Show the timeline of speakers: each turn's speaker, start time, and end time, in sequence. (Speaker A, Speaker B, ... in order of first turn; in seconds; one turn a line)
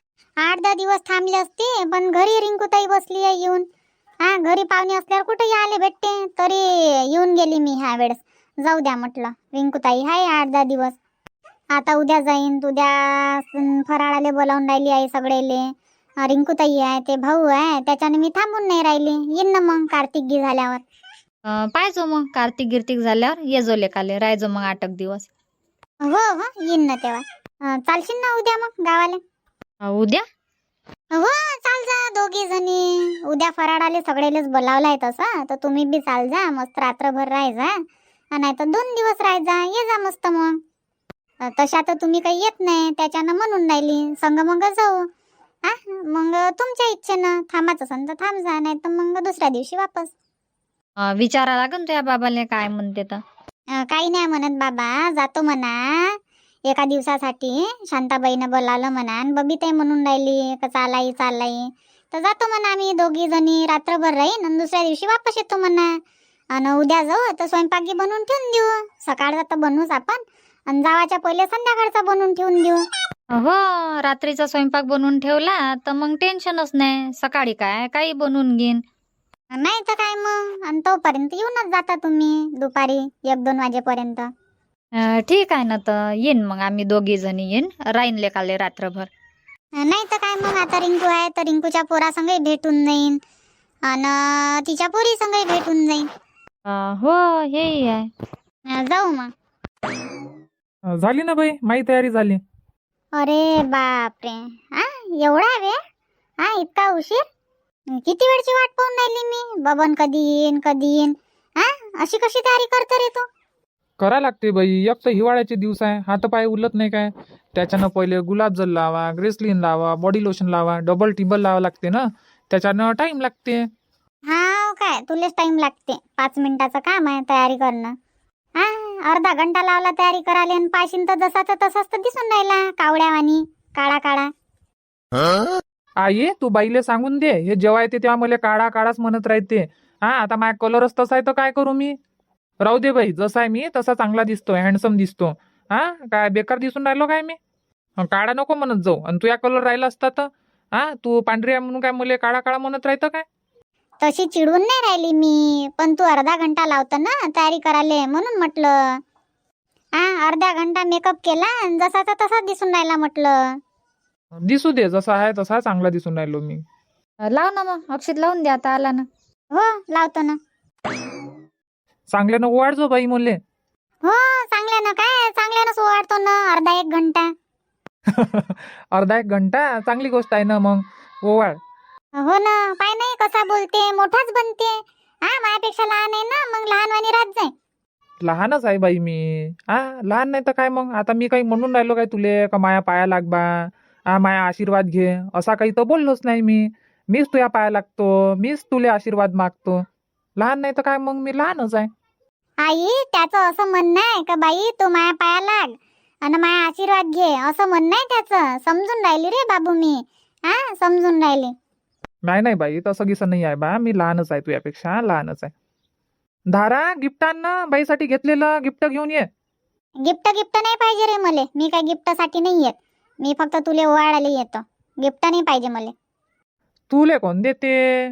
Speaker A: 0.4-3.6
Speaker A: 4.2-10.9
Speaker A: 11.7-15.6
Speaker A: 16.2-20.8
Speaker B: 21.6-25.2
Speaker A: 26.0-29.2
Speaker B: 29.8-30.2
Speaker A: 31.1-37.7
Speaker A: 38.3-40.5
Speaker A: 41.5-45.0
Speaker A: 45.6-50.1
Speaker B: 51.1-53.2
Speaker A: 53.8-56.1
Speaker A: 56.7-65.9
Speaker A: 66.5-72.8
Speaker B: 73.3-78.8
Speaker A: 79.5-84.3
Speaker B: 85.0-89.1
Speaker A: 89.8-93.2
Speaker A: 93.9-96.0
Speaker B: 96.7-98.0
Speaker A: 98.7-99.3
Speaker C: 101.0-102.4
Speaker A: 103.2-105.8
Speaker A: 106.4-107.2
Speaker A: 108.0-113.2
Speaker C: 114.0-123.6
Speaker A: 124.3-127.9
Speaker A: 128.6-134.3
Speaker C: 136.0-141.9
Speaker C: 142.6-147.4
Speaker C: 148.0-153.2
Speaker A: 154.0-158.8
Speaker A: 160.0-163.4
Speaker C: 164.4-166.6
Speaker B: 167.2-169.1
Speaker A: 169.5-170.4
Speaker C: 172.1-173.4
Speaker A: 174.0-177.3
Speaker C: 178.1-181.6
Speaker A: 182.2-187.5
Speaker C: 188.2-193.5
Speaker C: 194.1-199.8
Speaker C: 200.4-201.9
Speaker A: 202.6-211.5
Speaker C: 212.2-215.5
Speaker C: 216.5-219.3
Speaker A: 220.0-225.9
Speaker C: 226.9-227.7